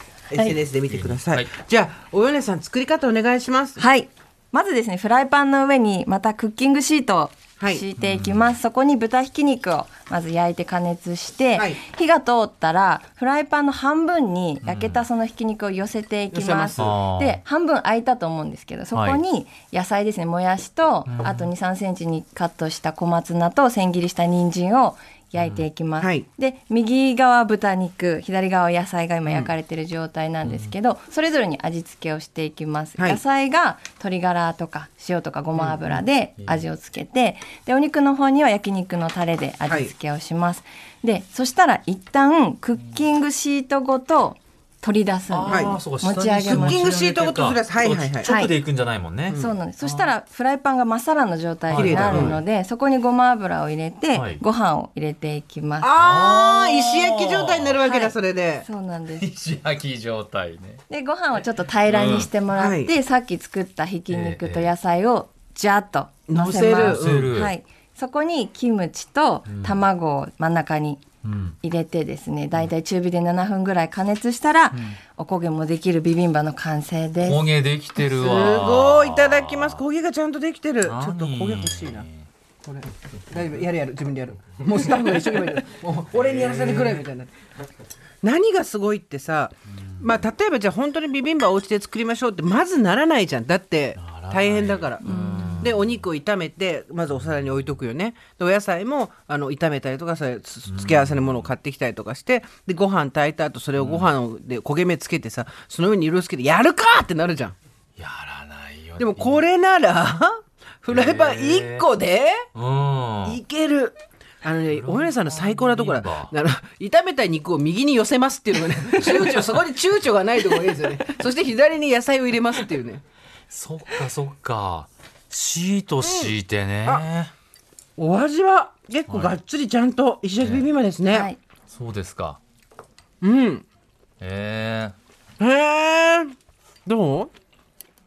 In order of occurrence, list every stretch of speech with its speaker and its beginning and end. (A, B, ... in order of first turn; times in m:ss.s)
0:00.3-0:03.8 A
0:00.9-0:01.5 B
0:03.8-0:46.8 C
0:07.6-0:07.9 A
0:08.0-0:08.6 B
0:11.6-0:11.8 A
0:14.6-0:15.0 B
0:16.3-0:17.0 A
0:16.8-0:17.4 B
0:18.9-0:19.2 B
0:21.1-0:21.5 B
0:25.4-0:25.6 B
0:26.0-0:26.3 A
0:29.3-0:29.5 A
0:30.4-0:30.7 B
0:35.6-0:36.0 A
0:39.7-0:39.9 A
0:45.3-0:50.1 B
0:45.5-0:45.8 A
0:46.5-0:48.3 A
0:48.2-0:48.5 C
0:49.3-0:49.6 A
0:49.4-0:55.9 C
0:51.7-0:52.4 B
0:51.8-0:52.4 A
0:54.1-0:54.4 B
0:55.8-0:58.7 A
0:56.0-0:57.8 B
0:57.8-0:59.3 C
0:59.2-1:00.8 B
1:00.9-1:11.0 C
1:01.9-1:02.3 B
1:02.5-1:02.9 A
1:04.1-1:04.7 B
1:06.3-1:07.3 A
1:06.7-1:07.5 B
1:09.5-1:09.8 B
1:11.2-1:11.6 B
1:11.6-1:17.5 C
1:14.7-1:15.0 B
1:17.2-1:19.8 B
1:18.1-1:22.1 A
1:20.8-1:22.3 B
1:22.6-1:27.3 A
1:26.1-1:27.0 B
1:28.2-1:47.6 A
1:34.0-1:36.0 B
1:35.0-1:35.7 C
1:40.7-1:41.5 B
1:43.8-1:44.1 B
1:48.0-1:49.4 B
1:49.0-1:52.4 A
1:50.9-1:51.9 B
1:52.6-1:53.4 B
1:53.2-2:03.0 A
1:54.7-1:56.3 B
1:59.0-1:59.5 B
2:03.5-2:07.3 B
2:06.0-2:07.1 A
2:08.0-2:11.3 A
2:09.1-2:09.4 B
2:10.4-2:10.7 B
2:11.1-2:11.4 C
2:11.7-2:12.4 B
2:13.2-2:13.6 A
2:14.2-2:15.0 B
2:15.4-2:16.3 A
2:16.8-2:17.3 A